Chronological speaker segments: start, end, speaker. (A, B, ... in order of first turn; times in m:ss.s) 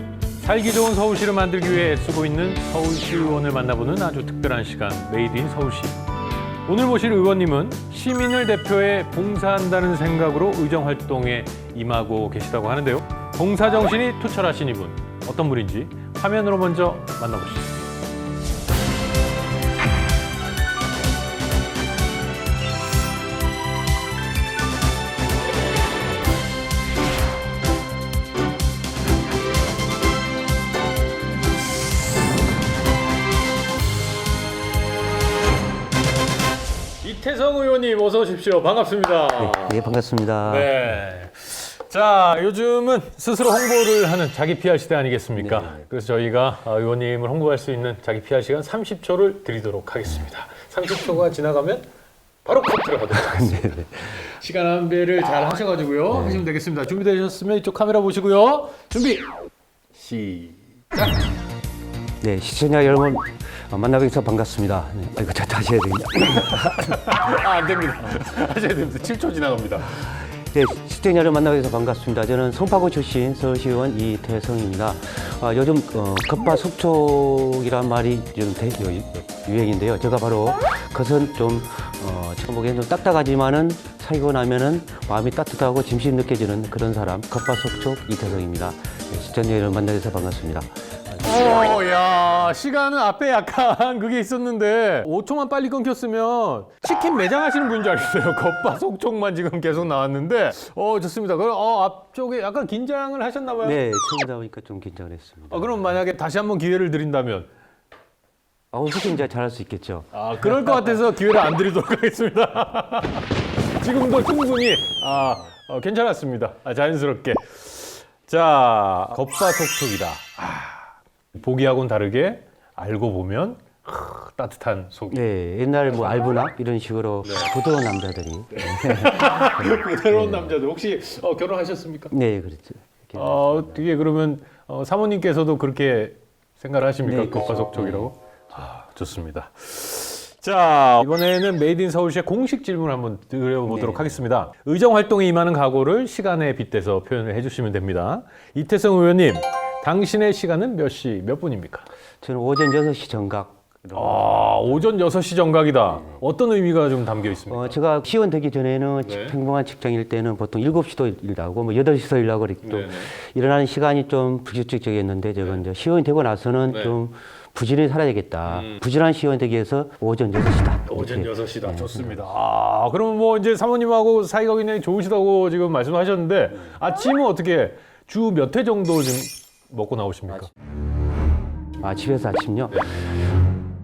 0:00.4-0:06.0 A
0:06.6-0:17.8 A
0:37.0-0:39.8 A
0:39.4-0:40.8 B
0:40.4-0:51.9 A
0:45.4-0:45.8 B
0:52.4-0:59.3 A
0:53.1-0:54.2 B
0:56.1-0:56.5 B
0:59.9-1:01.1 A
1:02.2-1:06.8 B
1:06.4-1:10.2 A
1:10.3-1:31.4 B
1:31.2-1:43.8 A
1:43.6-1:45.9 B
1:45.5-1:47.5 A
1:48.7-1:50.8 B
1:50.1-2:05.2 A
2:05.1-2:10.6 B
2:07.2-2:07.5 A
2:08.5-2:12.1 A
2:12.1-2:13.8 B
2:13.2-2:31.9 A
2:17.0-2:18.1 B
2:23.7-2:24.2 B
2:32.2-2:34.8 B
2:33.9-2:37.8 A
2:37.5-2:52.2 B
2:39.0-2:39.4 A
2:42.6-2:43.1 A
2:46.7-2:47.0 A
2:48.5-2:48.8 A
2:50.9-3:00.5 A
3:01.8-3:02.9 B